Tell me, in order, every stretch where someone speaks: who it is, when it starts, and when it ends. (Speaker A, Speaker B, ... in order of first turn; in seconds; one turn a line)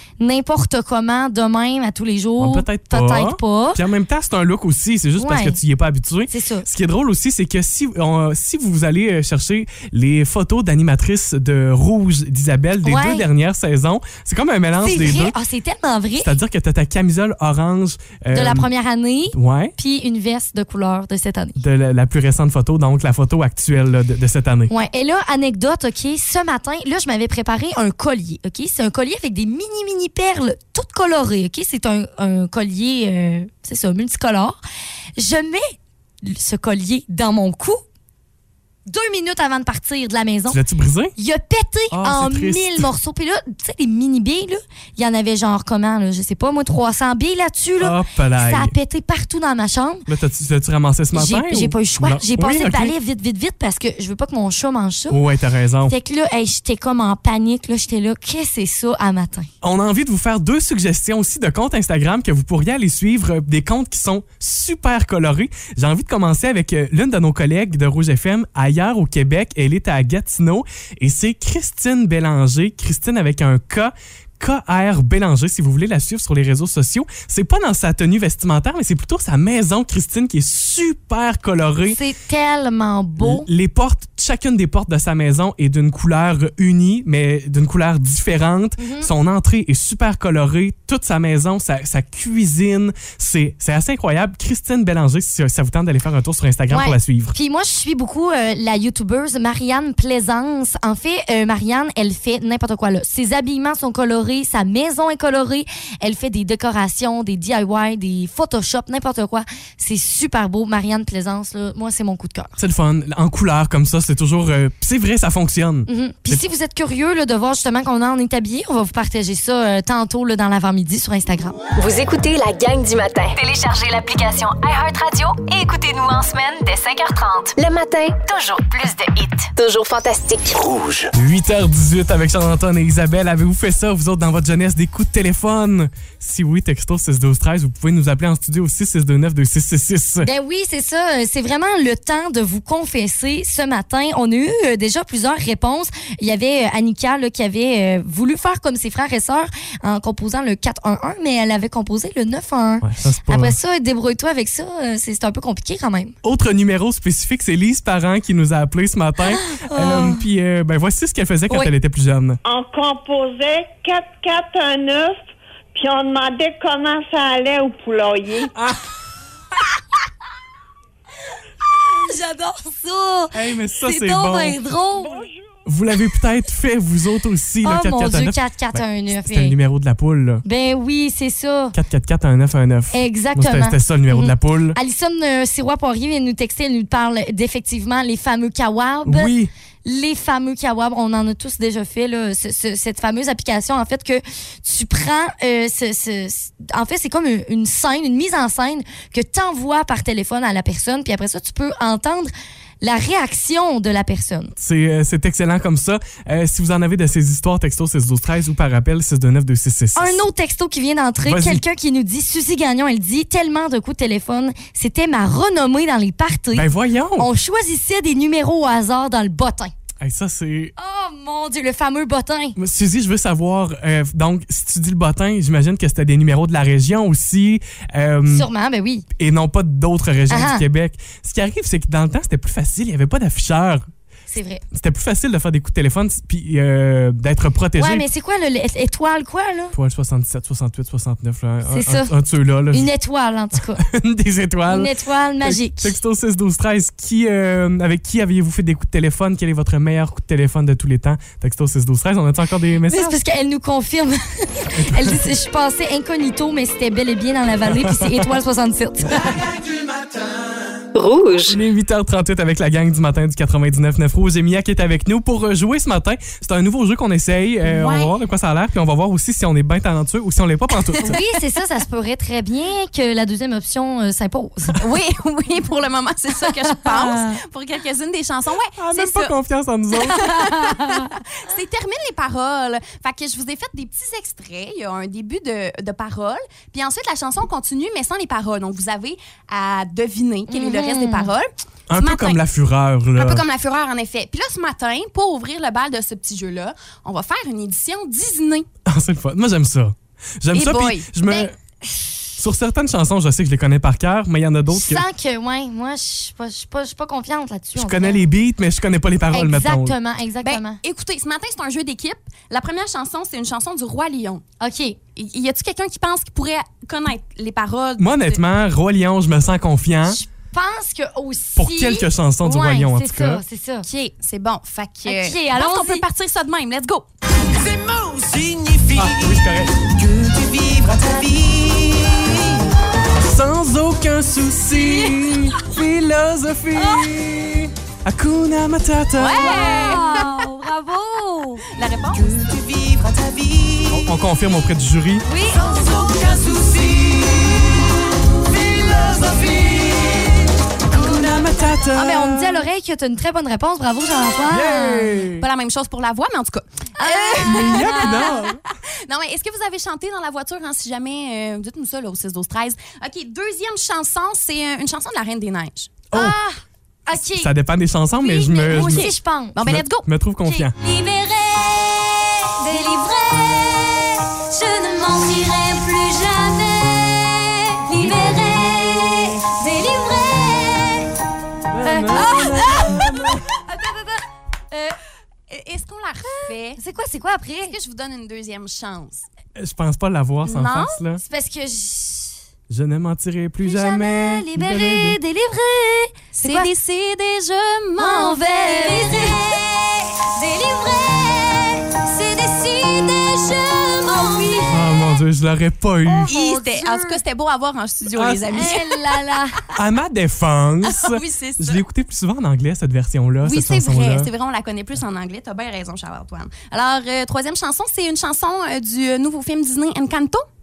Speaker A: 0.2-3.8
Speaker B: 2.4-15.3
Speaker A: 5.2-5.6
Speaker A: 6.3-6.7
Speaker A: 12.8-13.3
Speaker A: 14.8-16.3
Speaker B: 16.2-18.7
Speaker A: 18.3-21.6
Speaker B: 19.3-19.7
Speaker B: 21.6-24.7
Speaker A: 24.7-34.6
Speaker A: 35.2-35.7
Speaker A: 36.2-37.8
Speaker A: 38.9-40.6
Speaker B: 40.5-41.1
Speaker A: 41.2-50.1
Speaker B: 41.9-42.9
Speaker B: 47.8-48.7
Speaker B: 50.1-52.9
Speaker A: 51.1-55.2
Speaker B: 55.1-55.9
Speaker A: 55.9-59.5
Speaker B: 59.6-82.0
Speaker A: 81.9-83.5
Speaker B: 83.2-97.3
Speaker A: 88.8-89.1
Speaker A: 96.7-112.6
Speaker B: 112.6-116.4
Speaker A: 115.9-121.5
Speaker C: 121.8-130.6
Speaker D: 130.5-131.1
Speaker B: 131.1-140.3
Speaker A: 140.2-156.1
Speaker B: 152.8-153.6
Speaker B: 156.2-162.4
Speaker A: 159.3-160.2
Speaker E: 162.4-165.2
Speaker E: 165.7-168.5
Speaker B: 168.5-168.8
Speaker A: 171.8-175.3
Speaker B: 173.3-174.6
Speaker B: 175.7-180.4
Speaker A: 177.6-179.6
Speaker A: 180.4-181.8
Speaker B: 181.7-184.8
Speaker A: 182.9-204.5
Speaker B: 189.1-189.5
Speaker B: 204.6-210.2
Speaker A: 209.9-219.7
Speaker B: 211.2-211.6
Speaker B: 216.5-217.3
Speaker B: 220.0-220.7
Speaker A: 220.8-222.6
Speaker B: 222.6-228.5
Speaker A: 228.3-229.1
Speaker B: 229.2-233.9
Speaker A: 230.3-230.7
Speaker A: 234.3-234.6
Speaker B: 234.7-238.1
Speaker A: 237.8-239.7
Speaker B: 239.7-242.9
Speaker A: 241.7-242.1
Speaker A: 242.7-243.8
Speaker B: 243.6-244.9
Speaker A: 244.7-246.0
Speaker B: 245.4-253.2
Speaker A: 252.9-259.4
Speaker B: 254.7-255.3
Speaker B: 257.6-258.2
Speaker D: 259.3-260.3
Speaker C: 260.9-261.6
Speaker B: 261.5-271.2
Speaker F: 267.7-268.1
Speaker A: 271.0-274.8
Speaker F: 274.8-279.3
Speaker A: 276.4-277.4
Speaker B: 278.8-280.3
Speaker A: 280.0-281.1
Speaker F: 280.1-292.4
Speaker A: 290.5-291.3
Speaker B: 291.9-293.4
Speaker F: 293.2-298.7
Speaker B: 298.9-301.5
Speaker F: 300.5-301.5
Speaker B: 302.4-305.0
Speaker A: 304.7-308.3
Speaker B: 307.7-310.0
Speaker A: 309.3-310.8
Speaker F: 310.4-314.4
Speaker A: 314.6-315.0
Speaker F: 315.1-318.4
Speaker B: 318.0-320.2
Speaker A: 320.0-323.9
Speaker B: 321.6-323.4
Speaker F: 323.8-327.1
Speaker A: 325.0-326.0
Speaker D: 327.4-332.5
Speaker B: 328.9-329.8
Speaker B: 333.2-339.6
Speaker A: 334.7-335.4
Speaker A: 336.8-337.1
Speaker F: 339.2-340.5
Speaker A: 339.3-341.6
Speaker F: 341.7-342.3
Speaker D: 342.3-343.9
Speaker B: 343.9-345.3
Speaker A: 345.2-345.8
Speaker D: 345.6-347.8
Speaker D: 348.4-350.4
Speaker B: 350.9-352.7
Speaker A: 351.9-355.3
Speaker B: 354.5-355.5
Speaker F: 355.4-366.1
Speaker A: 357.0-358.4
Speaker B: 357.4-358.6
Speaker B: 366.1-366.4
Speaker A: 366.1-367.5
Speaker B: 367.1-369.1
Speaker A: 368.2-369.6
Speaker F: 368.7-370.1
Speaker B: 369.6-370.7
Speaker A: 370.4-381.1
Speaker B: 378.0-378.6
Speaker B: 381.7-383.4
Speaker A: 381.8-385.0
Speaker F: 385.5-386.8
Speaker A: 386.2-387.8
Speaker F: 387.7-389.3
Speaker B: 389.6-391.2
Speaker A: 390.4-392.4
Speaker B: 392.7-395.2
Speaker A: 393.6-396.7
Speaker F: 396.3-399.7
Speaker A: 397.9-404.8
Speaker F: 404.0-404.8
Speaker B: 404.7-406.3
Speaker A: 406.0-407.2
Speaker F: 406.3-409.1
Speaker B: 408.1-408.5
Speaker A: 408.4-409.6
Speaker B: 409.7-414.3
Speaker F: 410.8-411.8
Speaker F: 413.4-420.4